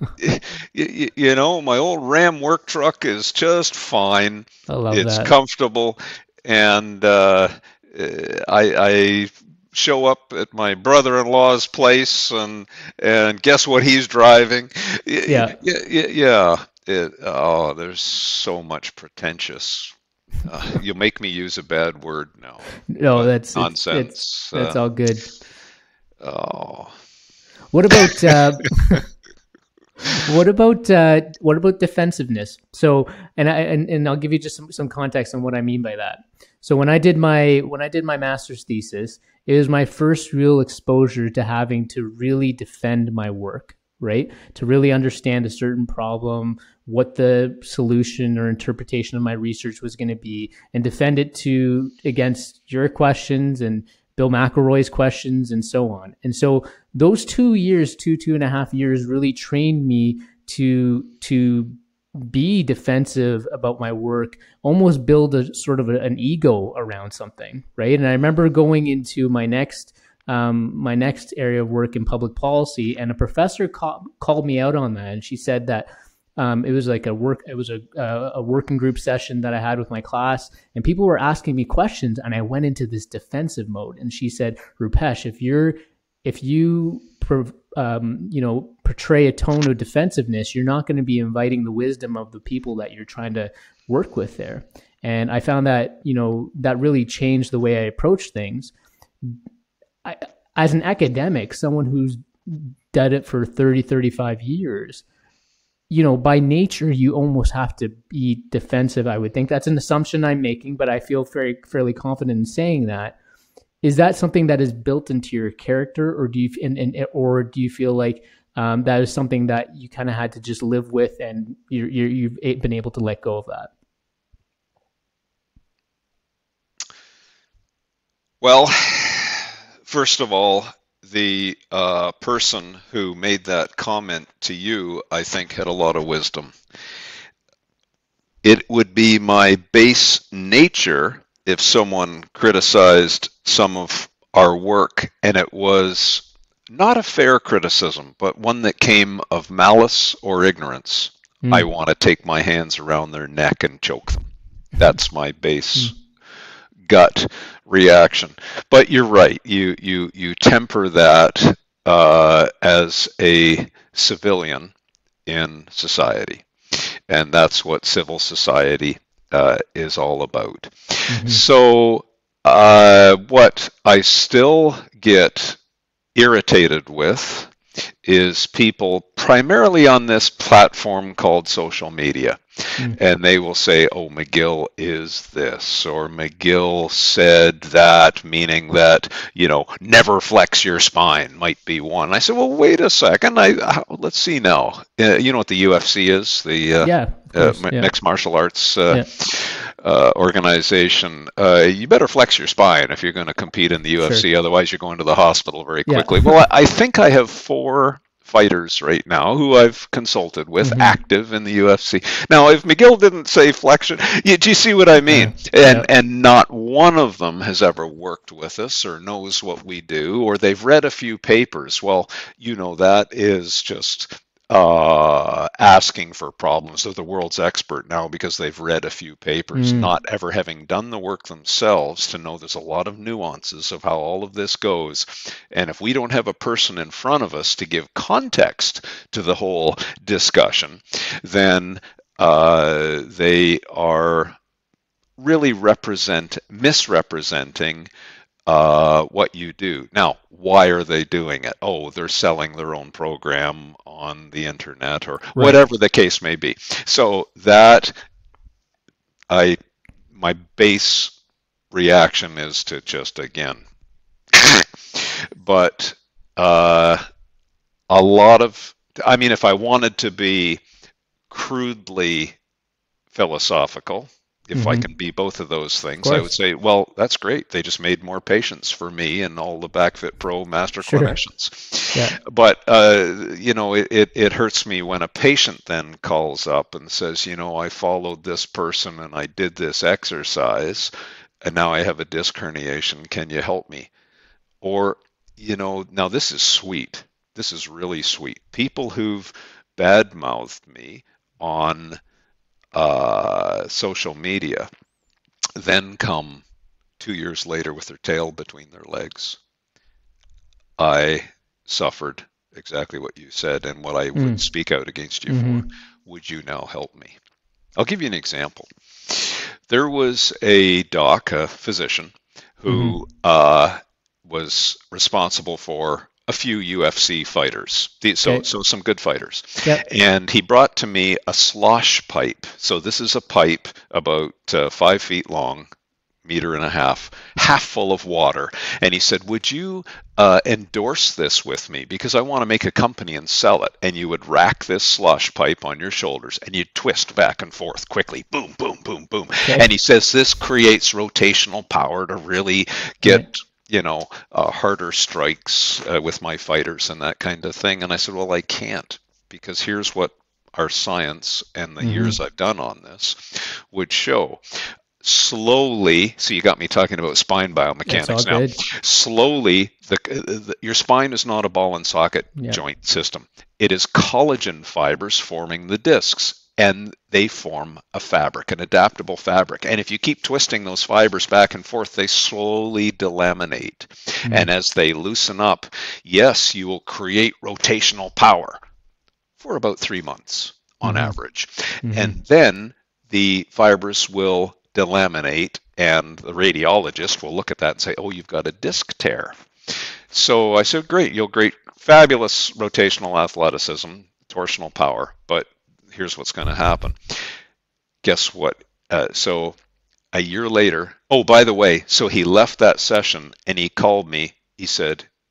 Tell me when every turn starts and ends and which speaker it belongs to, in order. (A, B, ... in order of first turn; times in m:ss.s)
0:00.2-0:19.9 A
0:04.7-0:05.3 B
0:15.2-0:15.6 B
0:20.4-0:22.6 A
0:22.9-0:25.3 B
0:23.1-0:24.8 A
0:26.2-0:26.9 A
0:27.7-0:29.0 B
0:30.0-1:39.4 B
1:40.0-1:45.0 B
1:45.9-1:53.2 B
1:53.8-2:03.7 B
2:08.4-2:16.6 A
2:18.4-2:36.0 A
2:36.8-2:44.7 A
2:45.2-2:55.6 A
2:51.1-2:51.4 B
2:56.1-4:04.4 A
3:16.8-3:17.9 B
3:25.9-3:26.4 B
3:30.6-3:31.0 B
3:35.1-3:35.9 B
3:49.5-3:49.9 B
4:05.2-4:07.9 A
4:08.4-4:17.9 A
4:19.3-4:19.6 A
4:20.1-4:21.1 A
4:21.7-4:23.6 A
4:24.3-4:27.0 A
4:27.9-4:30.6 A
4:31.3-4:32.4 A
4:33.1-4:50.9 A
4:34.5-4:34.9 B
4:36.0-4:36.3 B
4:40.8-4:41.2 B
4:51.4-4:53.9 A
4:54.6-5:02.0 A
5:02.7-5:04.7 A
5:05.6-5:06.4 A
5:07.0-5:09.4 A
5:10.8-5:17.2 A
5:14.2-5:14.4 B
5:15.3-5:15.6 B
5:17.8-5:35.7 A
5:22.7-5:23.0 B
5:36.2-6:28.6 A
6:01.8-6:02.2 B
6:07.9-6:08.6 B
6:29.4-6:47.2 A
6:30.8-6:31.2 B
6:31.8-6:32.2 B
6:48.0-6:49.6 A
6:50.1-6:55.1 A